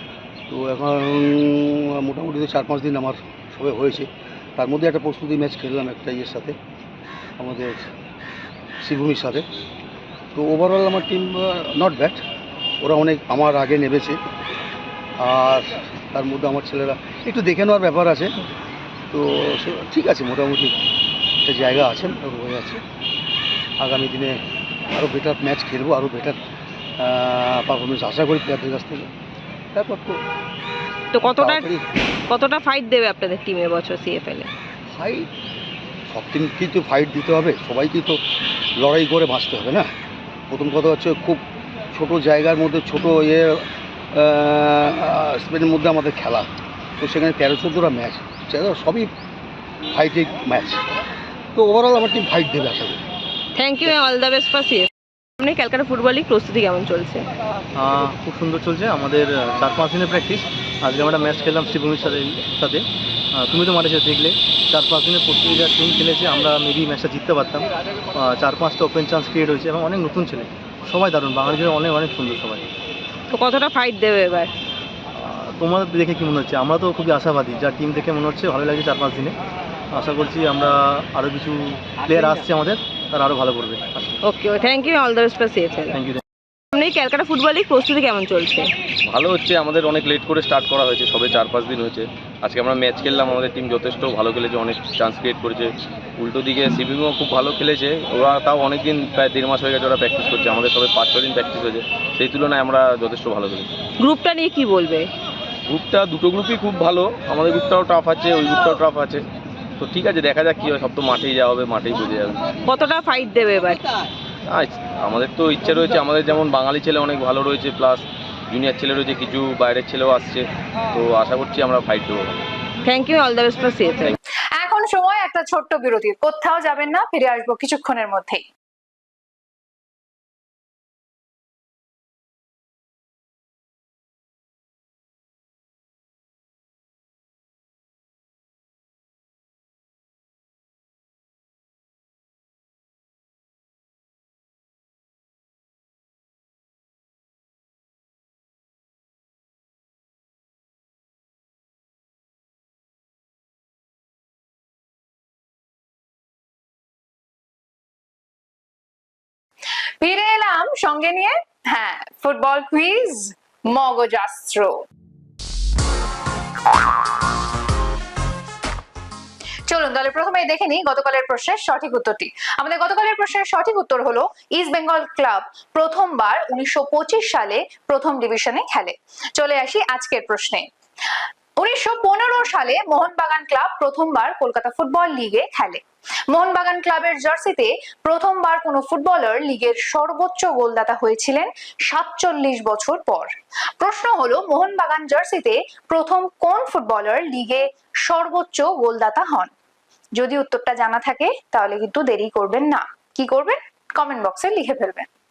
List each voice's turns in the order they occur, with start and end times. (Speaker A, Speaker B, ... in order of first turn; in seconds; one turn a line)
Speaker A: 0.5-6.5
Speaker A: 7.4-7.8
Speaker A: 8.8-9.4
Speaker A: 10.3-12.2
Speaker A: 12.8-14.2
Speaker A: 15.2-18.4
Speaker A: 19.1-20.8
Speaker A: 21.4-22.8
Speaker A: 23.8-24.4
Speaker A: 24.9-26.4
Speaker A: 27.0-29.1
Speaker A: 29.7-30.2
Speaker B: 31.1-31.7
Speaker A: 31.4-31.8
Speaker B: 32.3-34.5
Speaker A: 34.9-35.3
Speaker A: 36.1-38.2
Speaker A: 38.8-39.9
Speaker A: 40.5-46.5
Speaker A: 47.0-49.1
Speaker A: 49.9-50.8
Speaker A: 51.5-53.0
Speaker B: 53.5-57.2
Speaker C: 57.8-72.7
Speaker B: 73.3-74.5
Speaker C: 75.2-79.3
Speaker C: 79.9-84.1
Speaker B: 84.2-86.0
Speaker C: 85.9-86.2
Speaker B: 86.7-88.7
Speaker D: 89.1-103.7
Speaker B: 104.0-105.1
Speaker D: 105.7-109.2
Speaker D: 109.8-112.5
Speaker B: 112.7-113.8
Speaker D: 114.5-122.4
Speaker B: 122.8-124.2
Speaker E: 124.6-128.4
Speaker E: 160.0-164.8
Speaker E: 169.7-180.7
Speaker E: 181.6-199.5
Speaker E: 200.2-205.1